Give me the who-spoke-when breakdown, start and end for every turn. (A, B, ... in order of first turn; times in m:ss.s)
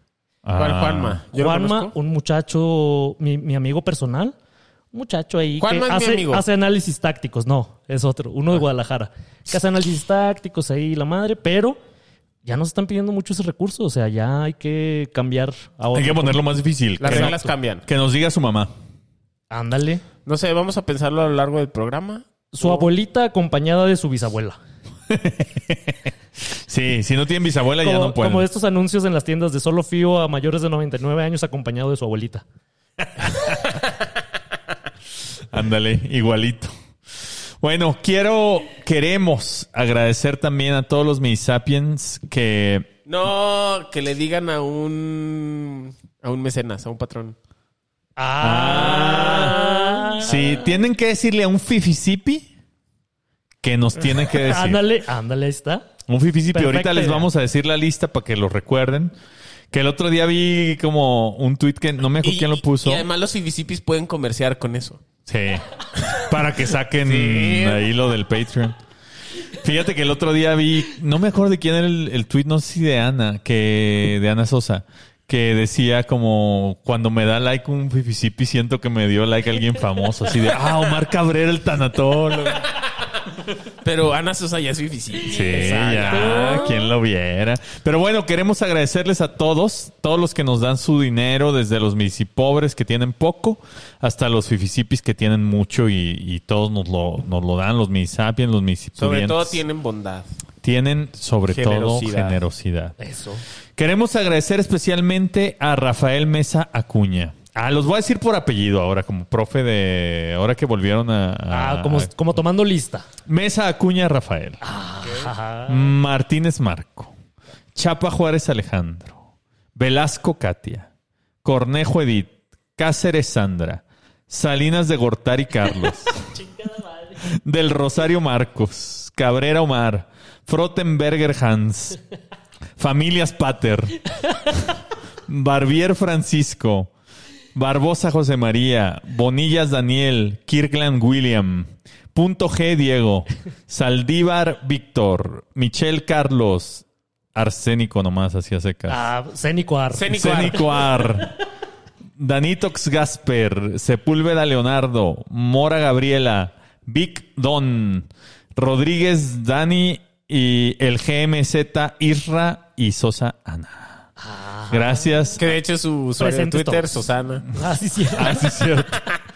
0:00.4-0:01.2 A
0:00.6-0:01.9 B
0:01.3-0:04.3 C
0:04.9-0:11.8 C
0:05.6-0:06.4 B
0:12.4-0:16.4 C
0:15.9-0:18.7 A
0:17.0-0:17.8 B
0:17.0-0:17.4 C
0:19.5-0:20.0 C
0:20.2-0:22.9 B
0:22.5-0:24.6 C
0:25.1-0:28.5 A
0:27.8-0:32.4 C
0:35.5-0:42.9 A
0:43.0-0:47.4 B
0:48.2-0:50.6 C
0:48.4-0:49.6 A
0:50.2-0:52.5 A
0:53.6-0:54.8 A
0:54.0-0:55.9 C
0:56.1-0:59.1 A
0:56.5-0:57.3 C
0:59.7-1:03.0 A
1:02.2-1:05.0 B
1:05.3-1:08.8 A
1:07.0-1:07.8 B
1:09.5-1:22.7 A
1:23.8-1:26.7 B
1:25.2-1:39.6 A
1:25.5-1:26.8 C
1:39.0-1:40.3 B
1:40.6-1:43.0 A
1:41.5-1:42.4 B
1:43.0-1:43.4 C
1:43.8-1:52.1 A
1:51.5-1:53.1 C
1:53.2-1:54.6 A
1:54.6-1:55.9 C
1:55.7-1:57.1 A
1:57.7-1:59.2 A
1:59.7-2:00.9 A
2:01.4-2:06.3 A
2:07.2-2:12.0 A
2:12.8-2:14.7 A
2:15.3-2:16.9 A
2:17.5-2:29.1 A
2:28.9-2:30.6 C
2:29.9-2:31.0 B
2:30.1-2:31.3 A
2:32.2-2:44.0 A
2:44.2-2:45.4 C
2:44.7-2:45.5 A
2:45.4-2:47.5 B
2:46.2-2:46.9 C
2:47.5-2:48.5 C
2:48.1-2:49.0 A